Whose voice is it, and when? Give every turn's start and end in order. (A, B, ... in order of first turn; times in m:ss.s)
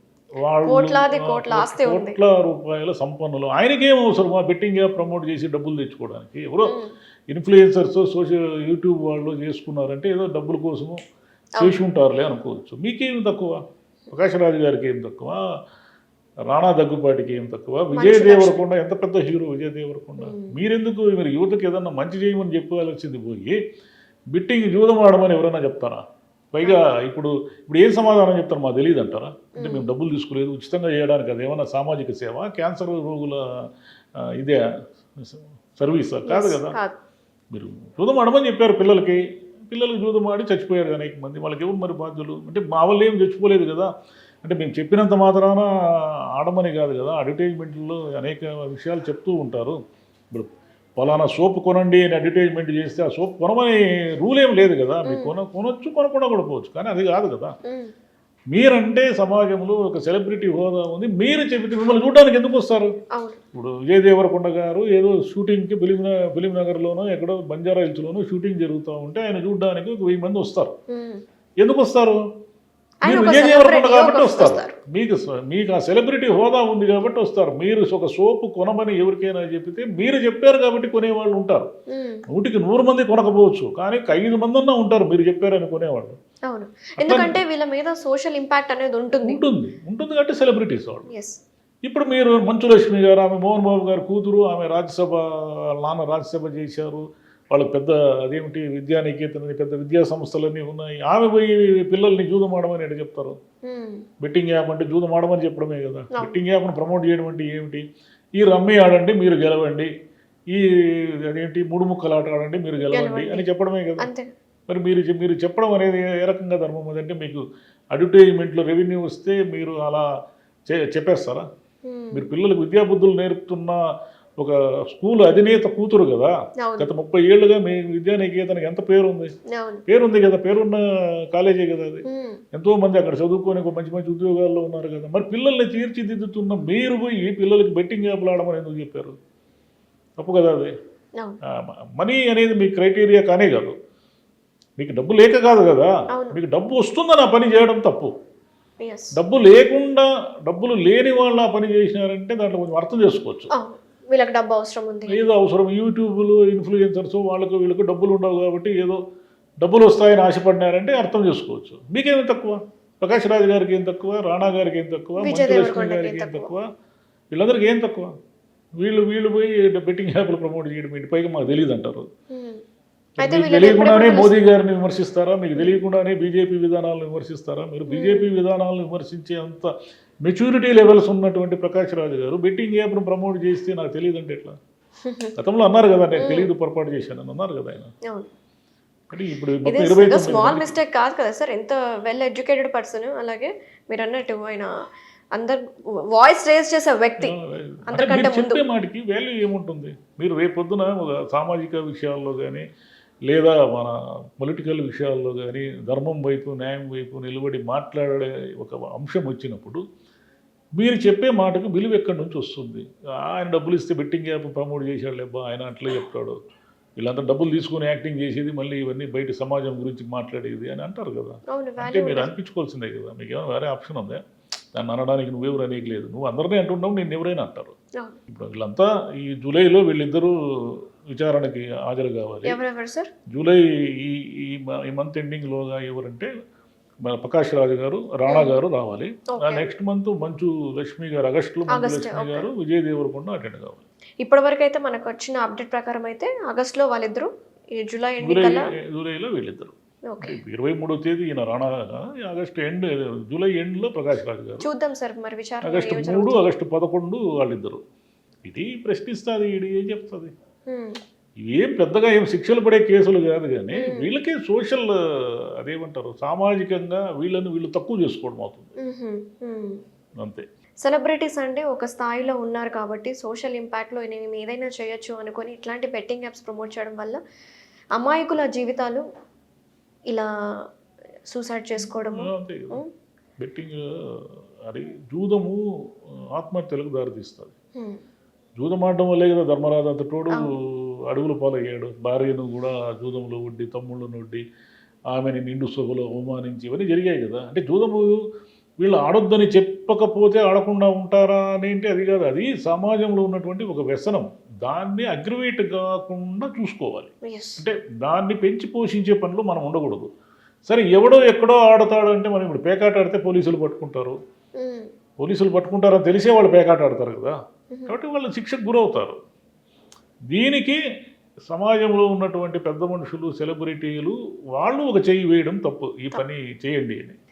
0:00.4-0:06.8 A
0:00.6-0:02.2 B
0:06.6-0:06.9 B
0:07.3-0:11.0 A
0:11.6-0:11.8 B
0:11.6-0:15.4 A
0:16.5-0:23.6 A
0:17.9-0:18.6 B
0:20.2-0:20.6 B
0:24.3-0:33.7 A
0:29.6-0:29.9 B
0:35.2-0:36.8 A
0:36.2-0:37.0 B
0:37.5-0:43.9 A
0:44.4-0:49.8 A
0:50.3-0:57.6 A
0:55.0-0:55.3 B
0:57.6-0:57.9 B
0:58.5-1:02.9 A
1:03.1-1:03.4 B
1:03.5-1:10.7 A
1:10.9-1:11.2 B
1:11.6-1:12.2 A
1:13.0-1:14.7 B
1:13.0-1:21.7 A
1:21.9-1:22.2 B
1:22.3-1:26.2 A
1:26.5-1:29.4 B
1:27.0-1:27.4 A
1:29.2-1:31.1 A
1:31.1-1:31.4 B
1:31.8-1:43.4 A
1:43.6-1:44.0 B
1:44.2-1:47.8 A
1:46.1-1:46.4 B
1:48.4-1:49.9 A
1:50.5-1:54.1 A
1:52.8-1:53.5 B
1:54.0-1:54.3 B
1:54.7-2:00.1 A
2:00.7-2:01.4 A
2:01.8-2:02.3 B
2:02.1-2:03.8 A
2:04.4-2:09.3 A
2:06.6-2:06.9 B
2:09.5-2:09.8 B
2:09.9-2:19.2 A
2:12.0-2:12.4 B
2:20.2-2:20.7 A
2:21.5-2:23.8 A
2:24.8-2:28.1 A
2:26.1-2:26.4 B
2:28.8-2:29.2 B
2:29.1-2:33.5 A
2:33.5-2:35.2 B
2:35.1-2:39.0 A
2:39.6-2:46.7 A
2:45.2-2:46.5 B
2:47.3-2:48.1 A
2:48.8-2:52.1 A
2:52.3-2:52.6 B
2:53.2-2:54.4 B
2:53.2-2:59.7 A
2:57.9-2:58.3 B
3:00.2-3:04.6 A
3:05.0-3:05.3 B
3:05.4-3:07.9 A
3:06.2-3:06.5 B
3:09.1-3:10.8 A
3:09.6-3:14.7 B
3:15.4-3:18.6 B
3:17.2-3:22.6 A
3:23.3-3:29.8 A
3:30.8-3:36.4 A
3:37.0-3:44.2 A
3:41.5-3:42.3 B
3:44.8-3:47.8 A
3:48.3-3:52.6 A
3:52.4-3:53.1 B
3:53.3-3:56.3 A
3:57.0-4:03.8 A
3:58.3-3:58.6 B
3:59.3-3:59.7 B
4:01.7-4:02.5 B
4:04.2-4:08.7 B
4:08.2-4:14.7 A
4:10.1-4:10.4 B
4:14.6-4:16.5 B
4:15.6-4:17.8 A
4:18.4-4:20.3 A
4:20.7-4:21.0 B
4:21.4-4:28.7 A
4:23.7-4:24.1 B
4:28.8-4:29.8 B
4:30.8-4:37.2 B
4:38.0-4:39.1 B
4:40.1-4:40.7 B
4:41.3-4:42.9 B
4:41.8-4:42.8 A
4:43.4-4:47.5 A
4:47.8-4:48.0 B
4:48.6-4:54.4 A
4:55.1-4:58.2 A
4:58.8-5:10.1 A
5:07.2-5:07.6 B
5:10.7-5:14.2 A
5:14.6-5:14.9 B
5:15.2-5:17.4 A
5:17.7-5:18.0 B
5:17.9-5:19.2 A
5:20.3-5:20.8 A
5:21.5-5:27.2 A